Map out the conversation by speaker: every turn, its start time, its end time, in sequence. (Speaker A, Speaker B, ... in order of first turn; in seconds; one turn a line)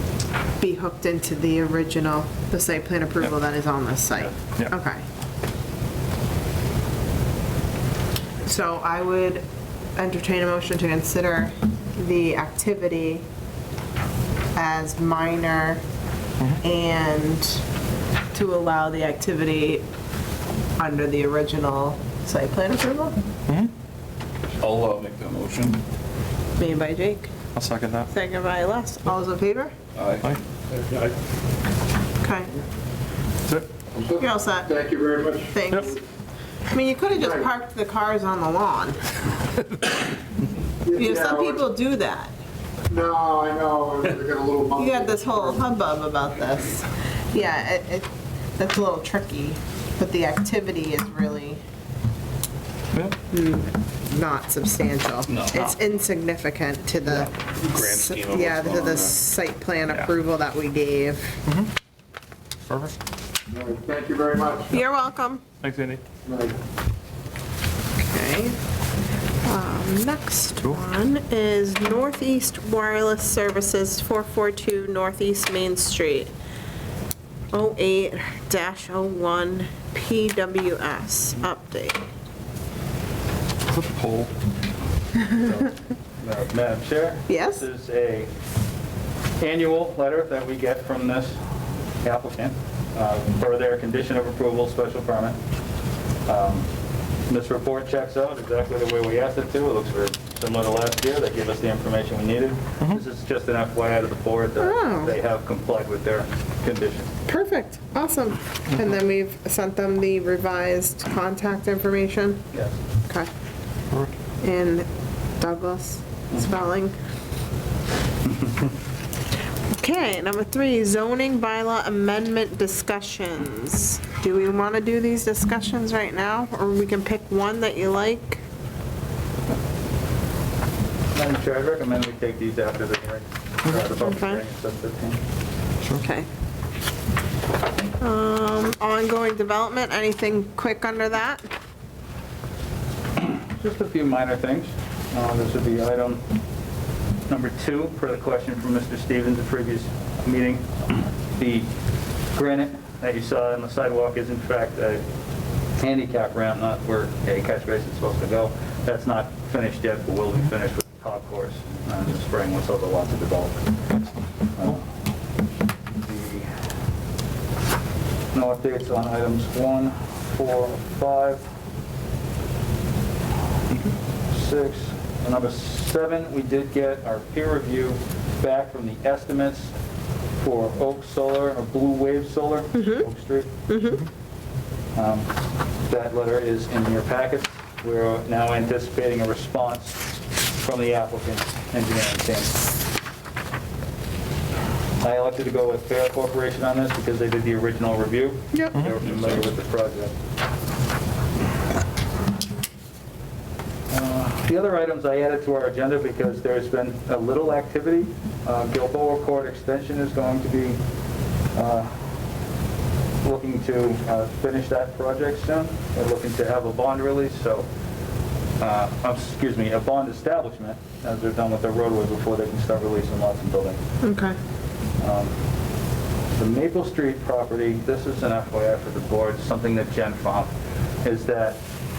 Speaker A: 0.6-5.0
Speaker A: 8.4-9.4
Speaker A: 10.0-13.2
Speaker A: 14.6-15.8
Speaker A: 16.6-17.6
Speaker A: 18.3-19.9
Speaker A: 20.8-23.2
Speaker B: 24.6-25.8
Speaker C: 24.7-25.6
Speaker A: 26.6-27.3
Speaker D: 27.6-28.1
Speaker A: 28.1-29.7
Speaker B: 30.0-30.2
Speaker A: 32.2-32.5
Speaker E: 34.0-36.0
Speaker A: 34.2-34.8
Speaker A: 35.5-36.0
Speaker A: 36.7-39.0
Speaker E: 37.2-37.5
Speaker E: 40.9-41.6
Speaker A: 40.9-42.3
Speaker E: 42.9-45.6
Speaker A: 44.8-51.6
Speaker A: 53.3-61.4
Speaker C: 55.3-55.5
Speaker B: 57.6-59.1
Speaker D: 62.7-63.0
Speaker E: 63.5-64.8
Speaker A: 64.7-65.4
Speaker D: 65.6-66.0
Speaker E: 66.2-66.6
Speaker A: 68.0-68.6
Speaker A: 69.4-76.3
Speaker A: 77.5-82.0
Speaker D: 83.7-84.3
Speaker C: 85.3-88.3
Speaker A: 87.3-87.6
Speaker C: 89.4-91.4
Speaker C: 92.0-95.4
Speaker C: 96.3-96.7
Speaker C: 97.3-107.1
Speaker A: 104.6-105.1
Speaker A: 107.3-112.4
Speaker A: 114.4-114.9
Speaker A: 115.4-117.0
Speaker A: 119.8-128.4
Speaker C: 131.1-135.2
Speaker A: 133.9-134.4
Speaker A: 136.0-136.3
Speaker A: 138.0-141.5
Speaker C: 143.2-146.2
Speaker C: 147.3-151.7
Speaker C: 152.3-155.0
Speaker C: 155.8-163.7
Speaker C: 164.6-164.8
Speaker C: 166.0-166.5
Speaker C: 168.3-171.4
Speaker C: 174.3-179.7
Speaker C: 180.4-183.5
Speaker A: 182.8-183.1
Speaker A: 183.7-184.1
Speaker C: 184.9-185.3
Speaker C: 185.9-190.0
Speaker C: 190.6-192.5
Speaker C: 195.0-200.1
Speaker C: 203.9-210.8
Speaker C: 211.5-211.9
Speaker C: 213.2-217.7
Speaker C: 218.6-223.8
Speaker A: 224.0-224.4
Speaker C: 225.0-225.3
Speaker C: 226.4-230.5
Speaker C: 231.0-231.6